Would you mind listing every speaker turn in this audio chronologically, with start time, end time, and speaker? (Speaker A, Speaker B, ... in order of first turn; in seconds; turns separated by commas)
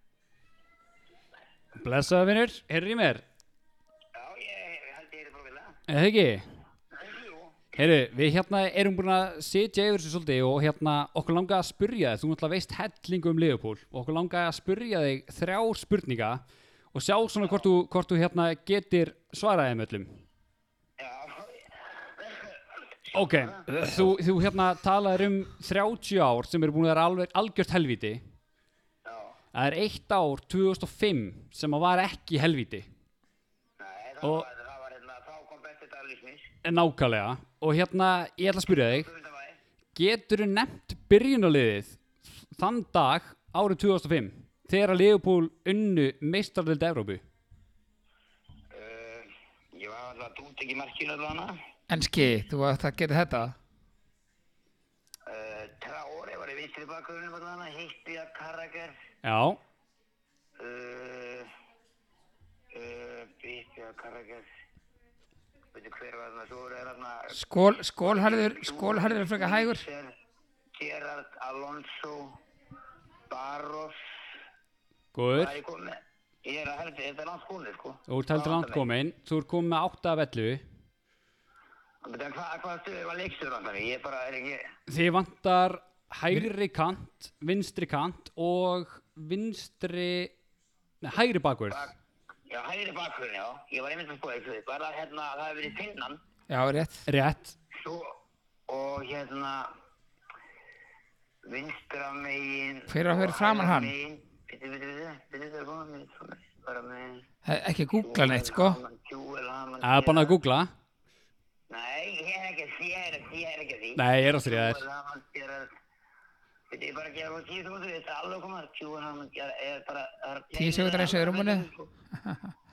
Speaker A: 1.7-3.2, Speaker B: 4.1-5.8, Speaker A: 5.9-6.5, Speaker B: 6.9-7.6, Speaker A: 7.7-20.2, Speaker B: 21.0-23.8, Speaker A: 23.1-28.2, Speaker B: 29.0-29.4, Speaker A: 29.5-32.9, Speaker B: 33.8-36.5, Speaker A: 34.2-34.5, Speaker A: 36.6-39.1, Speaker B: 38.7-39.6, Speaker A: 39.9-47.2, Speaker B: 48.7-51.6, Speaker C: 51.9-53.6, Speaker B: 55.2-59.0, Speaker A: 59.2-59.6, Speaker B: 60.6-61.5, Speaker B: 62.7-64.5, Speaker B: 65.7-67.4, Speaker C: 67.3-69.8, Speaker B: 68.0-70.1, Speaker B: 70.7-72.4, Speaker B: 73.3-74.0, Speaker A: 75.1-75.5, Speaker B: 75.3-78.8, Speaker A: 78.1-80.6, Speaker B: 82.0-84.7, Speaker A: 84.9-90.3, Speaker A: 91.0-91.9, Speaker B: 92.5-96.2, Speaker C: 96.5-97.1, Speaker A: 97.1-97.6, Speaker B: 97.7-99.7, Speaker B: 101.4-107.3, Speaker C: 102.9-103.9, Speaker C: 107.4-108.8, Speaker B: 108.0-110.4, Speaker A: 109.8-110.7, Speaker B: 111.7-115.7, Speaker A: 114.0-114.8, Speaker B: 116.7-121.9, Speaker C: 120.5-122.5